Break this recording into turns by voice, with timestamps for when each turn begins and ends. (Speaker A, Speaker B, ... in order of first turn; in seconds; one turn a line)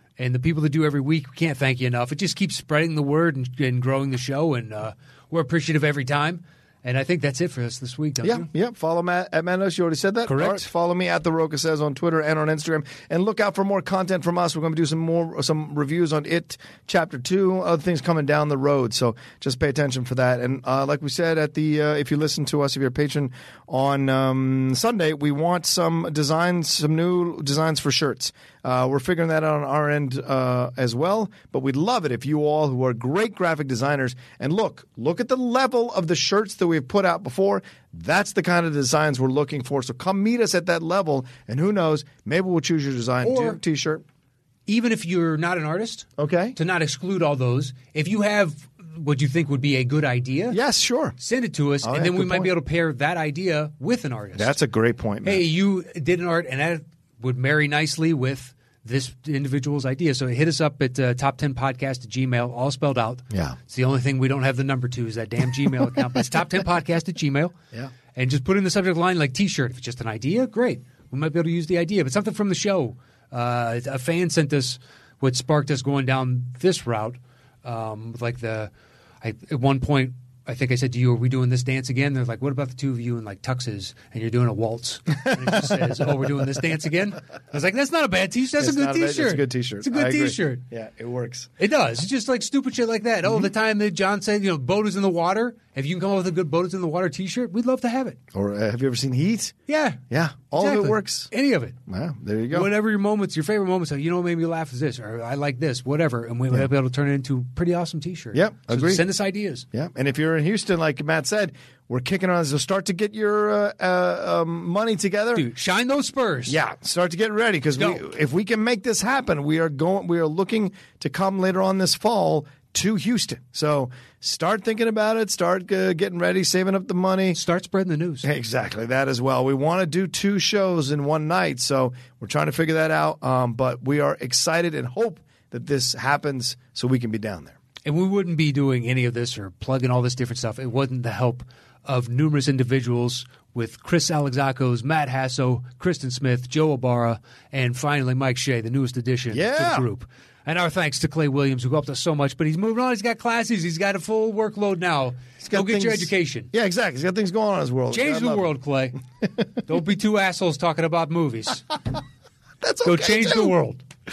Speaker A: 0.2-8.5
Speaker B: 8.2-44.0
Speaker A: 10.2-10.7
Speaker A: 43.2-43.6
Speaker A: 44.7-50.6
Speaker B: 46.2-46.6
Speaker B: 50.5-51.1
Speaker A: 51.2-54.6
Speaker B: 51.8-52.5
Speaker B: 54.4-55.4
Speaker A: 55.2-67.5
Speaker B: 63.3-63.6
Speaker A: 68.1-90.6
Speaker B: 85.3-85.7
Speaker B: 88.6-91.5
Speaker A: 91.6-98.2
Speaker B: 98.3-99.5
Speaker A: 99.7-100.0
Speaker B: 100.1-101.3
Speaker A: 100.5-101.8
Speaker B: 101.9-102.7
Speaker A: 102.5-109.7
Speaker B: 108.3-109.0
Speaker B: 109.7-115.5
Speaker A: 115.3-116.6
Speaker B: 116.5-127.4
Speaker A: 117.8-118.0
Speaker A: 127.3-128.3
Speaker B: 128.2-137.6
Speaker A: 137.8-156.5
Speaker B: 149.3-149.8
Speaker B: 155.4-158.5
Speaker A: 157.9-159.0
Speaker A: 159.7-161.7
Speaker B: 162.6-163.5
Speaker A: 162.8-163.8